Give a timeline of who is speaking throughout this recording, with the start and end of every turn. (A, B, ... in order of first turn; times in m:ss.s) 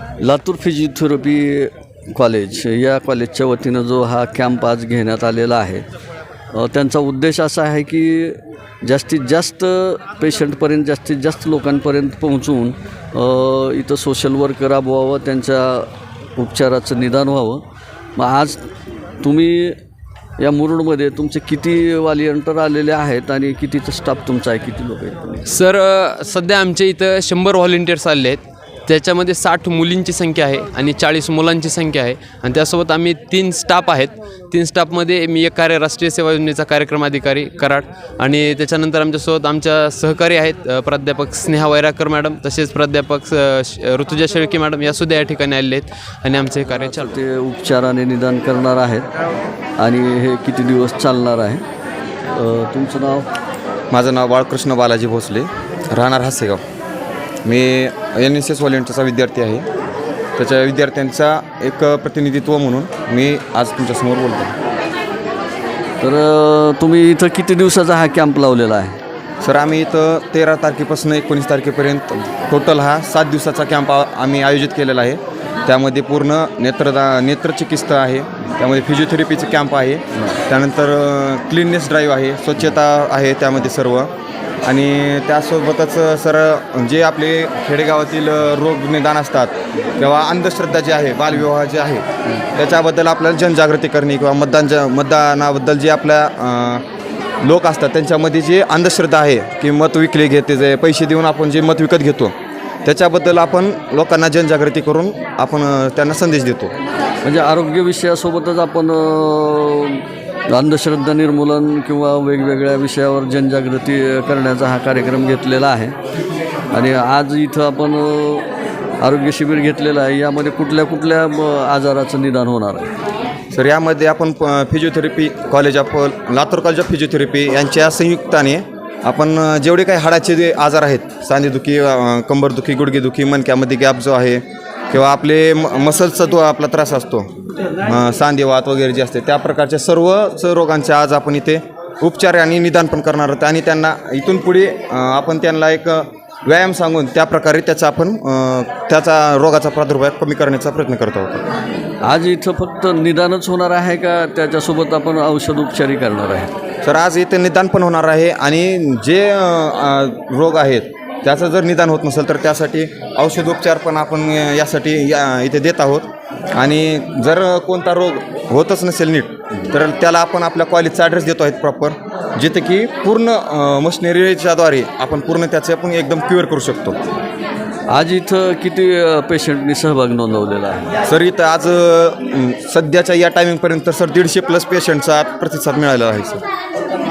0:00.2-0:05.8 A
0:06.5-0:17.6 A
0:18.2-0:18.6 A
0:19.2-0:19.8 A
0:20.4-0:25.4 A
0:25.4-0:47.2 B
0:46.6-0:49.1 A
0:49.8-0:51.6 A
0:52.3-0:53.3 A
0:53.9-0:56.6 C
0:57.4-0:59.7 C
1:00.4-1:04.5 C
1:06.0-1:09.0 A
1:09.4-1:24.1 C
1:24.6-1:36.8 C
1:37.4-1:42.3 C
1:42.8-1:46.7 C
1:47.2-1:56.0 A
1:56.7-1:58.5 A
1:59.0-2:02.9 A
2:03.5-2:17.3 C
2:17.8-2:31.5 C
2:32.0-2:36.5 A
2:36.8-2:57.0 C
2:57.9-3:00.9 A
3:01.0-3:06.4 C